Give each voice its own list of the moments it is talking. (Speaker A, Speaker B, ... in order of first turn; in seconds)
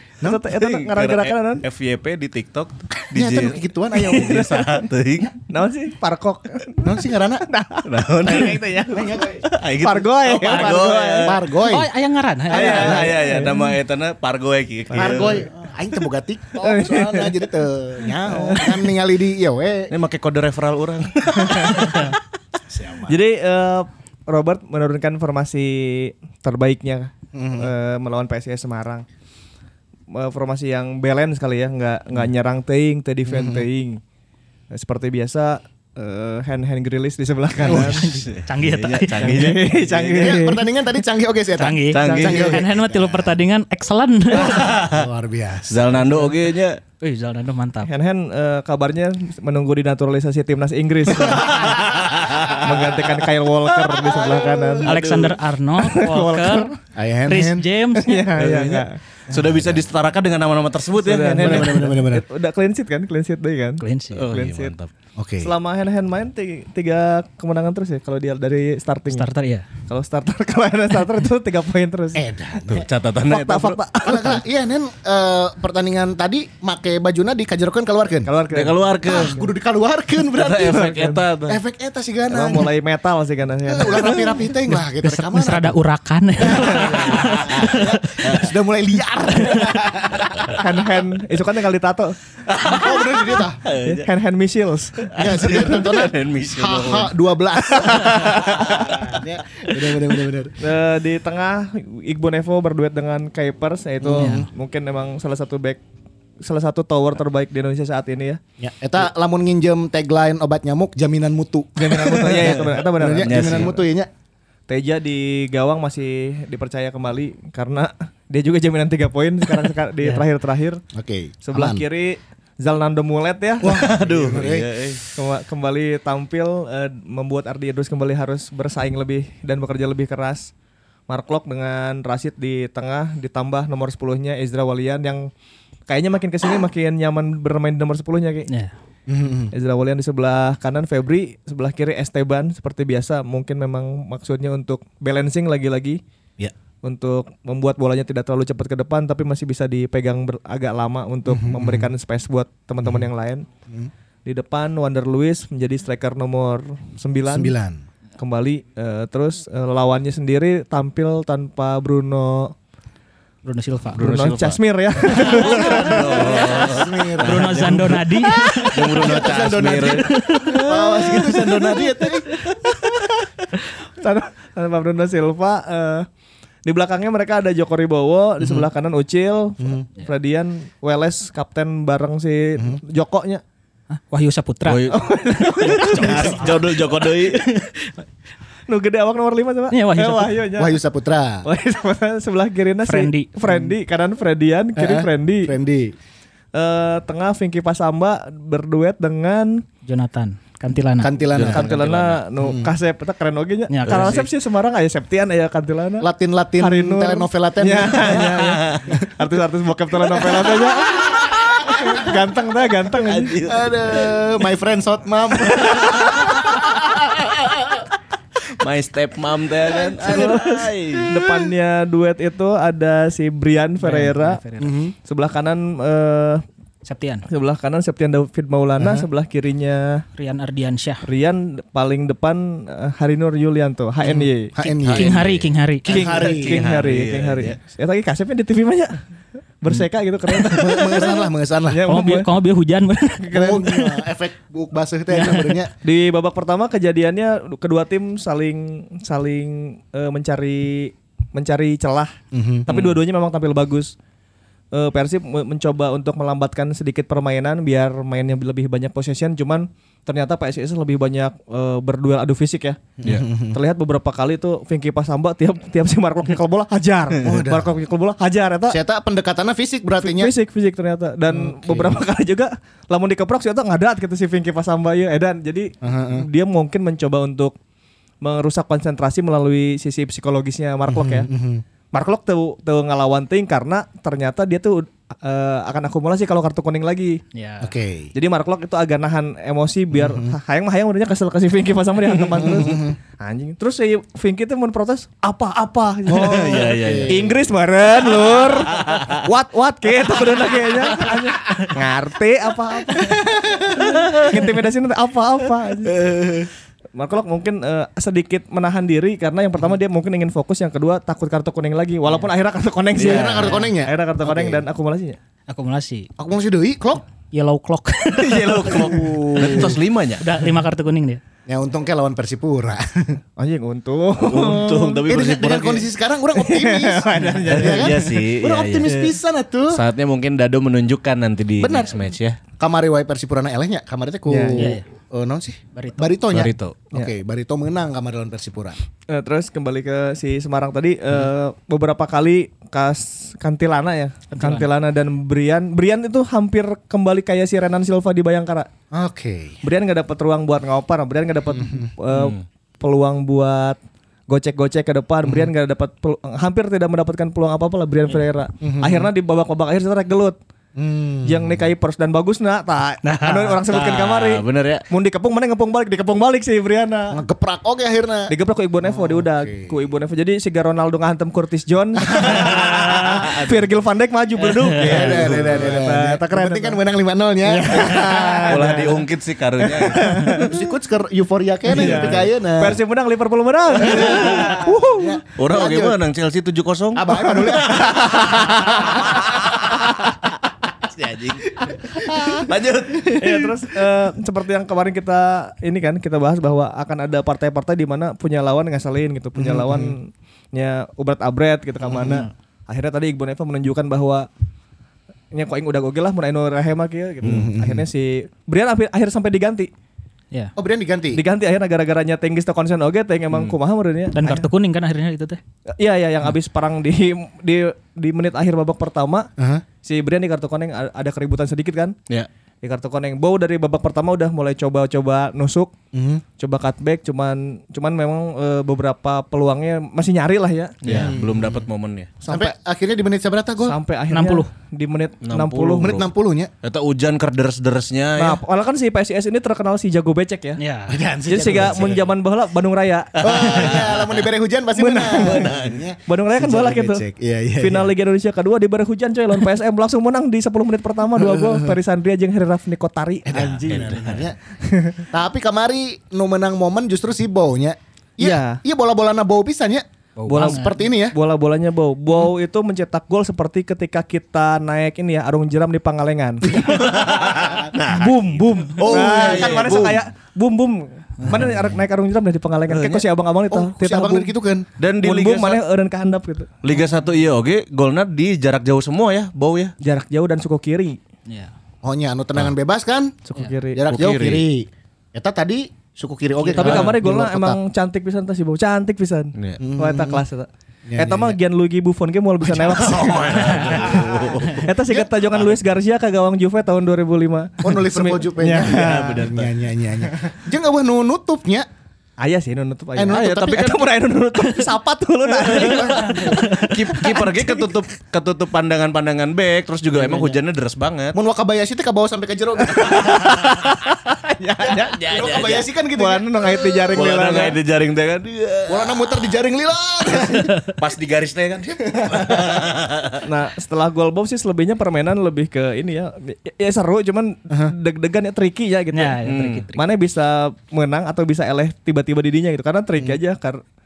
Speaker A: 0.2-0.7, 3.1-4.6, 6.8-7.5, 8.9-9.4, 11.2-11.9, 12.5-13.4, 14.9-19.9, 22.7-23.1, 27.3-27.7, 33.3-33.7, 40.2-43.1, 44.3-46.3, 54.0-54.7, 56.9-57.6, 59.3-59.7, 61.3-62.2, 65.2-65.5, 72.1-72.9, 74.0-78.3, 79.0-82.7, 83.7-85.7, 86.4-90.6, 92.6-93.6, 95.1-100.6, 104.0-104.4, 108.6-114.1, 120.9-121.8, 123.6-124.7, 139.1-139.5, 151.2-151.9, 157.3-157.8, 165.3-167.6, 168.8-172.3, 178.4-178.7, 179.6-179.9, 182.6-182.8, 190.6-191.5, 194.8-195.9, 201.0-201.7, 202.4-202.7, 206.0-209.0, 210.1-212.1, 213.4-217.0, 219.9-220.3, 224.6-224.9, 228.8-229.1, 234.0-235.2, 235.8-236.6, 240.4-241.8, 243.3-245.7, 252.3-252.7, 263.0-263.6, 267.2-267.7, 268.7-270.3, 271.3-272.0, 275.8-276.3, 280.9-281.6, 287.6-288.1, 289.9-290.3, 292.4-293.0, 296.1-297.3, 303.1-303.9, 305.9-306.5, 312.9-314.6, 316.2-317.0, 318.8-319.8, 321.5-323.2, 325.1-329.8, 331.6-332.0, 332.6-338.8, 348.9-349.6, 351.5-351.9, 355.2-355.5, 358.6-359.1, 360.8-361.7, 367.1-369.8, 372.1-373.4, 374.7-378.7, 380.4-382.8, 383.8-386.0, 386.9-389.6, 391.6-392.5, 399.4-399.9, 401.8-402.3, 407.2-407.9, 410.6-411.2, 419.4-419.6, 425.9-426.2, 430.9-431.6, 432.2-433.8, 435.8-436.5, 440.9-442.1, 443.2-447.9, 451.2-451.8, 453.3-454.4, 455.1-461.1, 466.4-467.7, 468.8-470.0, 473.5-474.7, 481.8-483.2, 483.7-487.6, 489.6-490.2, 490.9-491.4, 492.7-495.1, 497.6-501.7, 502.9-503.8, 505.5-506.6, 511.1-513.6, 514.6-517.5, 518.7-520.6, 521.9-522.6
Speaker B: 0.2-1.6, 4.0-4.8, 5.4-11.3, 12.5-13.8, 16.6-17.4, 18.2-18.9, 21.4-22.1, 23.1-29.0, 30.1-34.0, 34.7-38.1, 39.2-40.6, 47.9-51.8, 52.6-55.0, 55.8-56.8, 57.9-59.0, 61.0-64.7, 65.4-69.3, 69.8-72.2, 73.3-74.4, 78.2-79.5, 80.7-81.2, 82.3-84.4, 86.5-87.0, 90.6-92.2, 93.8-95.7, 100.6-105.8, 106.4-108.4, 111.8-113.8, 114.7-120.8, 121.4-124.5, 125.1-130.5, 131.1-135.3, 135.9-138.5, 139.5-146.0, 146.8-153.5, 154.2-157.5, 158.2-162.5, 164.0-166.4, 172.6-173.2, 173.9-176.1, 176.6-183.4, 184.9-187.7, 188.7-190.8, 191.4-195.5, 196.5-199.6, 201.5-206.1, 206.6-213.4, 220.0-224.4, 225.1-226.4, 227.3-230.0, 231.0-234.5, 235.9-239.0, 239.6-242.3, 243.2-244.0, 245.8-252.2, 252.7-253.9, 254.7-262.9, 263.4-268.8, 270.0-277.5, 278.2-281.3, 281.9-287.2, 288.1-306.0, 306.9-315.2, 323.4-325.0, 326.3-328.2, 334.3-334.7, 339.1-348.7, 349.6-360.4, 361.2-367.2, 368.3-376.8, 377.4-379.0, 379.6-380.5, 381.7-385.2, 393.2-404.3, 405.3-409.7, 411.1-414.4, 415.7-419.3, 419.8-421.9, 422.6-425.7, 426.4-431.1, 432.2-432.5, 433.6-436.0, 438.2-440.6, 441.2-443.8, 444.8-445.5, 446.1-447.0, 447.6-453.8, 454.6-455.1, 458.2-458.6, 460.3-466.8, 467.9-474.3, 475.0-476.5, 479.8-481.0, 483.3-483.9, 486.5-499.2, 502.2-507.7, 509.9-510.4, 512.8-515.2, 515.9-517.6, 523.2-529.2, 529.7-533.6
Speaker C: 0.6-5.3, 7.8-8.7, 9.4-11.4, 12.5-15.4, 19.9-22.1, 37.6-40.4, 41.9-42.8, 44.4-45.1, 45.7-46.8, 51.5-53.1, 54.0-55.4, 58.4-62.0, 64.1-64.9, 72.7-73.8, 78.5-79.4, 80.3-81.6, 87.1-87.7, 88.2-88.5, 92.5-94.1, 95.0-97.1, 97.7-100.1, 112.4-113.8, 123.6-125.0, 163.9-172.5, 184.6-187.7, 201.3-202.2, 203.8-204.3, 208.0-208.9, 213.0-214.3, 215.6-217.1, 218.5-221.2, 234.8-235.4, 236.2-237.6, 252.7-253.0, 296.1-297.3, 298.7-299.1, 312.9-313.6, 318.1-320.2, 324.2-325.9, 327.4-329.0, 329.7-332.4, 336.3-336.8, 352.1-352.4, 363.7-364.8, 372.2-373.5, 374.4-375.5, 377.9-380.6, 381.8-382.1, 383.9-384.3, 385.4-390.2, 390.8-393.6, 430.8-432.1, 435.2-436.1, 436.6-438.4, 443.1-444.2, 445.1-445.8, 453.5-454.2, 466.5-469.9, 472.7-473.1, 474.8-475.6, 476.6-479.7, 483.9-484.4, 486.6-487.0, 492.6-494.7, 498.6-499.5, 503.1-503.8, 505.5-511.2, 514.7-515.7, 516.9-519.3, 520.2-523.2, 529.2-529.6
Speaker D: 10.5-10.9, 11.6-13.0, 37.6-39.5, 41.5-44.7, 47.0-47.9, 54.8-56.7, 57.2-58.3, 63.8-64.3, 69.1-69.7, 84.8-87.9, 89.4-89.8, 104.2-104.5, 138.5-138.7, 163.4-164.1, 167.2-169.0, 170.0-170.5, 183.9-186.5, 189.7-190.4, 192.8-193.6, 199.8-201.1, 203.7-204.2, 223.8-224.7, 226.8-227.2, 230.2-231.0, 234.6-236.0, 241.8-243.7, 245.1-245.5, 287.3-287.7, 315.5-316.1, 317.3-319.6, 320.2-321.2, 334.5-334.8, 335.7-336.1, 344.3-344.7, 363.0-363.6, 414.1-415.4, 434.1-434.5, 440.6-441.0, 460.2-460.7, 506.4-506.7, 528.9-529.9